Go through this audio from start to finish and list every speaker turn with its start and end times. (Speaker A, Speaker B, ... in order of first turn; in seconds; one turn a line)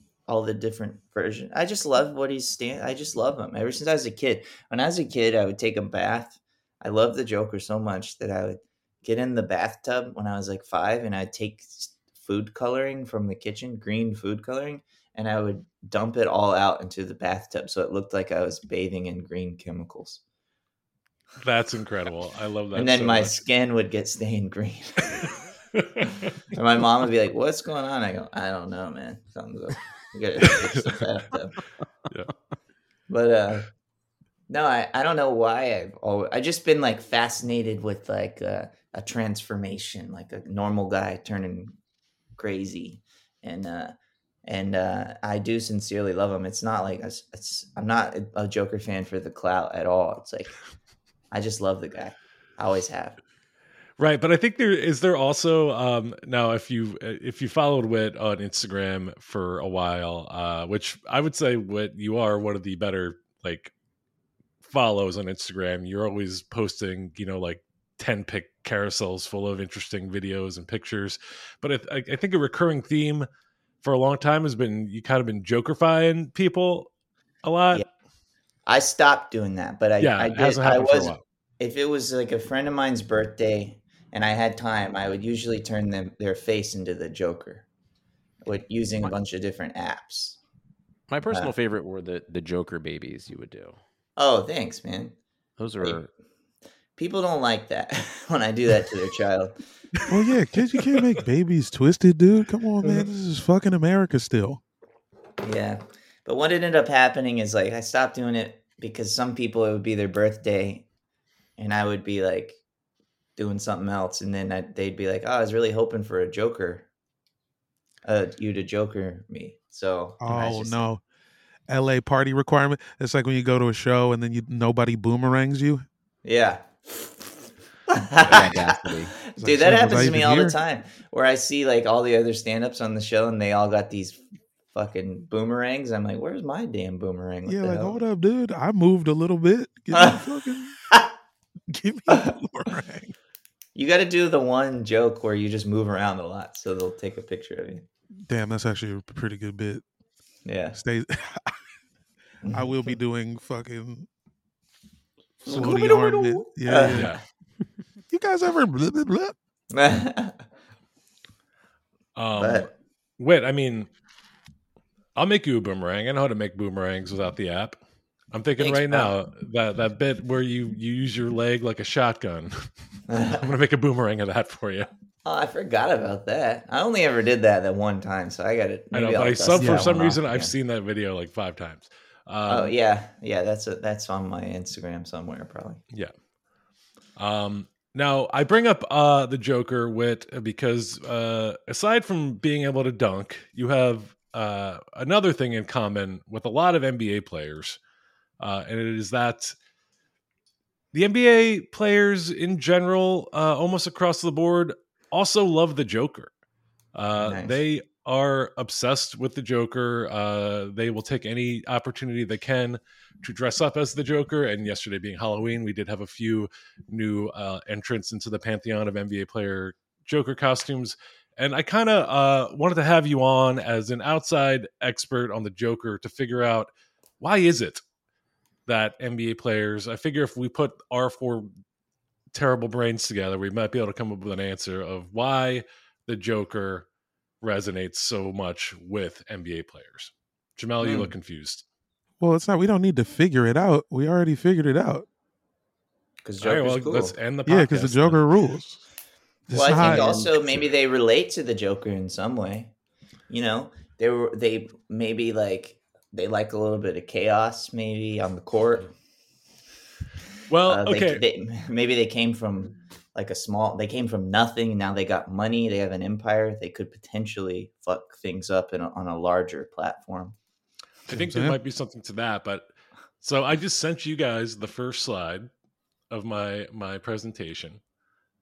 Speaker A: 0.3-20.2
Speaker B: 21.4-23.4
Speaker A: 22.7-25.3
Speaker B: 25.8-26.3
Speaker A: 26.5-31.6
Speaker A: 33.1-33.7
Speaker A: 34.5-41.8
Speaker A: 42.4-50.6
Speaker A: 51.3-53.2
Speaker B: 54.0-63.7
Speaker B: 64.6-73.3
Speaker B: 73.8-76.9
Speaker B: 77.4-77.8
Speaker A: 78.7-87.7
Speaker B: 80.0-81.2
Speaker A: 88.4-90.4
Speaker C: 91.1-93.8
Speaker A: 94.2-95.2
Speaker C: 95.6-96.1
Speaker A: 97.0-99.6
Speaker D: 100.1-104.6
Speaker B: 100.8-101.2
Speaker A: 105.4-110.9
Speaker A: 111.6-112.6
Speaker A: 113.4-116.9
Speaker A: 118.0-120.8
Speaker D: 120.2-121.0
Speaker D: 121.7-125.8
Speaker A: 126.2-138.0
Speaker C: 128.2-129.1
Speaker D: 129.4-130.6
Speaker D: 137.5-140.8
Speaker A: 139.9-140.3
Speaker D: 141.7-143.1
Speaker A: 143.8-147.8
Speaker D: 148.3-149.8
Speaker A: 150.5-150.8
Speaker D: 150.7-151.6
Speaker A: 152.4-152.9
Speaker D: 152.5-154.1
Speaker D: 155.4-157.2
Speaker A: 155.4-157.2
Speaker B: 156.9-157.2
Speaker D: 158.1-159.3
Speaker A: 159.7-160.4
Speaker B: 162.2-163.9
Speaker A: 162.4-162.7
Speaker B: 165.2-167.8
Speaker B: 168.3-172.7
Speaker A: 168.6-169.1
Speaker A: 173.1-173.5
Speaker B: 173.2-174.9
Speaker A: 175.2-180.5
Speaker B: 178.9-182.7
Speaker D: 179.6-179.9
Speaker A: 182.5-185.8
Speaker B: 187.2-197.8
Speaker B: 198.4-199.6
Speaker B: 200.9-206.3
Speaker B: 206.9-227.8
Speaker A: 207.2-207.6
Speaker B: 228.7-231.5
Speaker B: 232.3-236.9
Speaker B: 237.4-241.6
Speaker A: 240.8-241.1
Speaker D: 242.2-245.1
Speaker A: 246.2-247.1
Speaker B: 246.4-248.2
Speaker D: 247.5-248.8
Speaker D: 249.5-250.3
Speaker A: 249.5-252.7
Speaker C: 249.8-250.2
Speaker A: 253.3-258.9
Speaker B: 260.5-261.2
Speaker A: 260.7-270.4
Speaker B: 271.1-275.5
Speaker D: 271.1-271.6
Speaker B: 276.1-277.8